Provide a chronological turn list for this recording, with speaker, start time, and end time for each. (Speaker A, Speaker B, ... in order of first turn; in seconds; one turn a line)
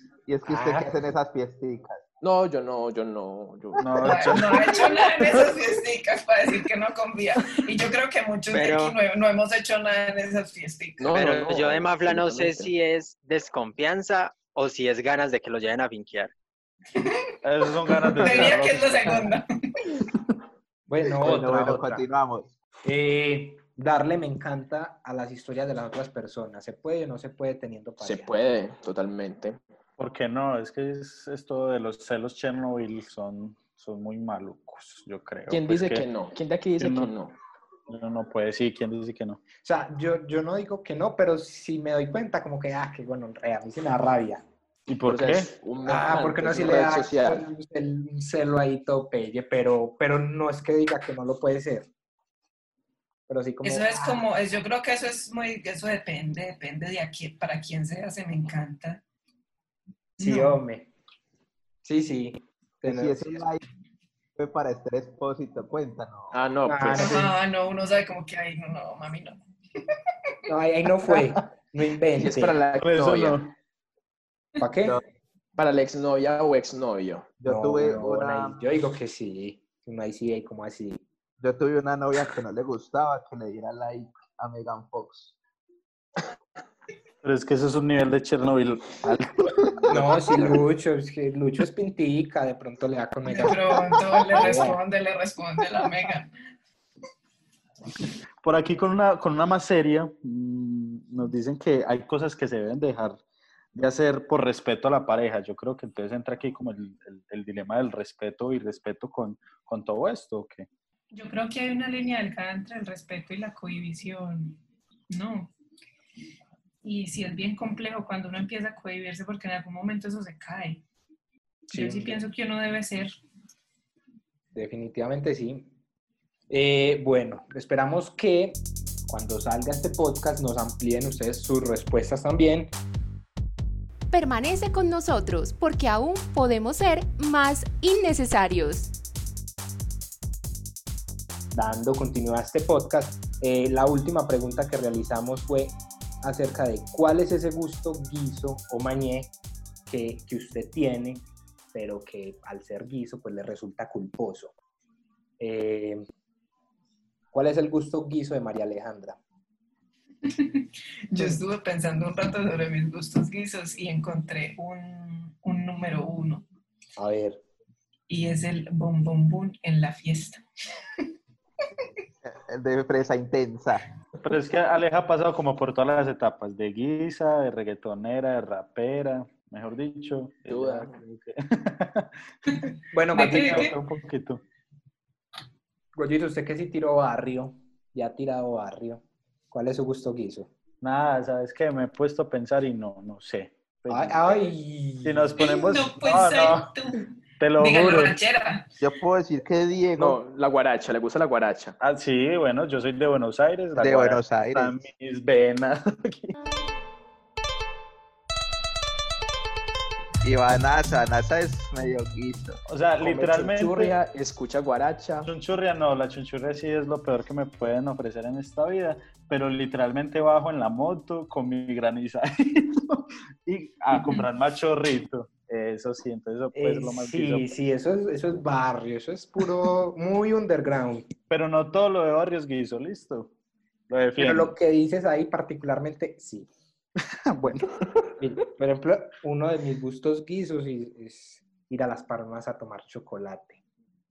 Speaker A: 0.3-2.0
Speaker B: 0.5-0.9
Speaker C: 2.2-4.5
Speaker D: 3.8-5.5
Speaker E: 4.0-11.1
Speaker F: 8.5-9.0
Speaker C: 11.0-12.7
Speaker F: 11.1-16.3
Speaker D: 17.4-19.3
Speaker E: 18.2-19.5
Speaker B: 20.9-22.0
Speaker A: 21.2-22.5
Speaker B: 22.9-28.3
Speaker C: 28.0-29.6
Speaker D: 30.0-36.0
Speaker C: 35.5-37.4
Speaker D: 36.8-37.1
Speaker D: 37.9-39.4
Speaker B: 39.6-44.4
Speaker D: 44.9-45.5
Speaker C: 45.1-47.5
Speaker B: 45.8-51.9
Speaker B: 53.3-54.2
Speaker E: 53.6-59.0
Speaker E: 60.2-60.6
Speaker B: 60.2-60.9
Speaker B: 61.8-63.4
Speaker A: 62.8-63.6
Speaker A: 64.4-66.3
Speaker C: 66.3-67.2
Speaker B: 66.7-67.3
Speaker E: 67.0-70.0
Speaker B: 70.5-72.6
Speaker C: 72.2-73.4
Speaker D: 72.8-73.5
Speaker B: 74.6-75.0
Speaker C: 75.6-77.3
Speaker A: 77.4-78.6
Speaker B: 77.4-81.0
Speaker A: 81.4-85.3
Speaker D: 87.2-90.1
Speaker B: 89.9-94.8
Speaker E: 93.3-96.3
Speaker D: 98.4-103.2
Speaker D: 103.7-110.7
Speaker E: 111.1-114.6
Speaker E: 115.1-115.5
Speaker E: 116.8-120.8
Speaker E: 121.7-123.2
Speaker B: 121.7-122.2
Speaker B: 124.5-125.7
Speaker B: 126.5-132.7
Speaker G: 134.1-138.9
Speaker B: 141.5-149.3
Speaker B: 149.9-154.5
Speaker B: 155.4-156.1
Speaker B: 157.3-159.2
Speaker E: 160.2-166.5
Speaker B: 161.2-161.4
Speaker B: 167.0-167.4
Speaker E: 168.1-170.4
Speaker A: 172.2-173.8
Speaker D: 174.2-182.1
Speaker C: 180.5-181.0
Speaker E: 182.5-183.8
Speaker B: 182.9-183.8
Speaker D: 183.2-184.4
Speaker B: 185.9-190.5
Speaker D: 190.8-194.5
Speaker B: 193.9-195.4
Speaker D: 195.0-196.7
Speaker E: 195.4-197.1
Speaker D: 197.4-198.2
Speaker E: 197.6-198.7
Speaker A: 198.8-200.2
Speaker C: 200.0-201.8
Speaker D: 201.8-206.3
Speaker A: 203.8-204.8
Speaker A: 210.2-212.6
Speaker D: 212.7-213.9
Speaker C: 213.0-215.3
Speaker D: 215.2-227.5
Speaker B: 226.5-231.1
Speaker D: 231.3-233.3
Speaker D: 233.9-234.5
Speaker B: 234.2-236.5
Speaker D: 237.3-237.8
Speaker B: 238.2-243.6